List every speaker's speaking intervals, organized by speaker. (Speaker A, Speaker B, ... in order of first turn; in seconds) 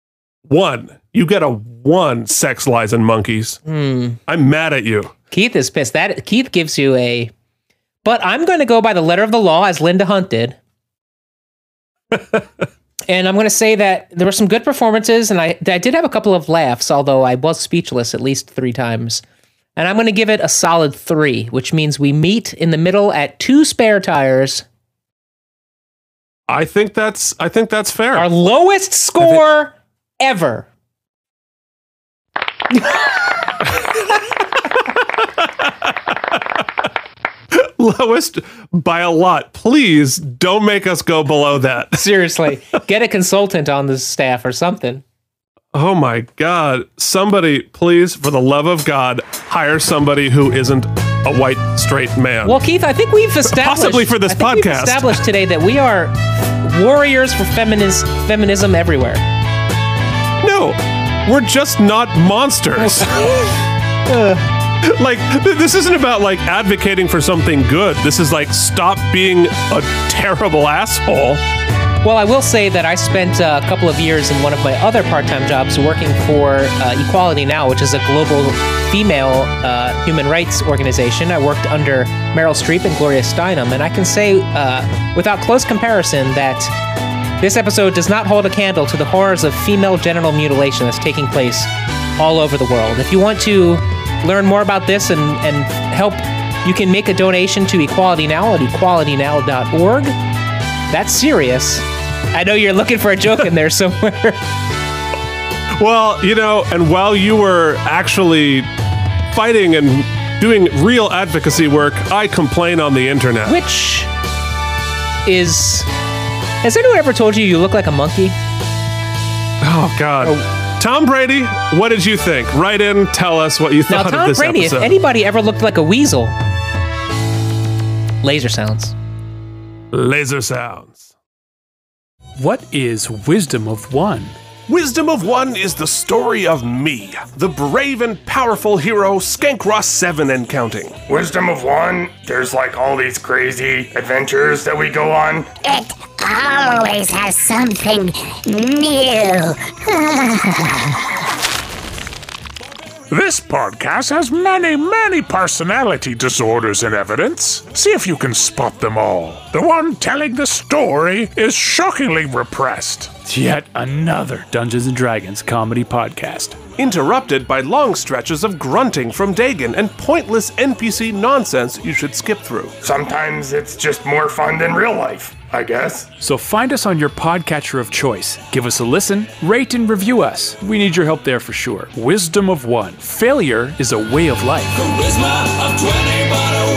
Speaker A: 0.5-3.6, 4.3-5.1, 12.1-12.4, 26.5-28.3, 35.0-36.4, 37.5-42.0, 45.7-52.6, 53.4-55.2, 60.4-63.1, 64.8-71.4, 105.8-108.7, 109.3-113.6, 119.6-124.9, 129.9-131.1, 134.7-141.0, 166.8-172.8
Speaker B: 3.6-4.2, 5.3-7.3, 8.0-10.6, 13.1-19.2, 19.8-24.6, 28.1-30.7, 42.0-45.0, 52.4-59.2, 62.8-63.5, 64.1-64.5, 72.0-86.7, 87.4-100.1, 100.9-104.4, 113.5-114.1, 115.2-115.9, 116.6-118.3, 123.9-126.3, 128.2-128.9
Speaker C: 132.4-134.3, 163.2-166.6, 176.2-185.0
Speaker D: 141.1-145.5, 172.8-176.1
Speaker E: 145.6-151.0
Speaker F: 153.1-163.1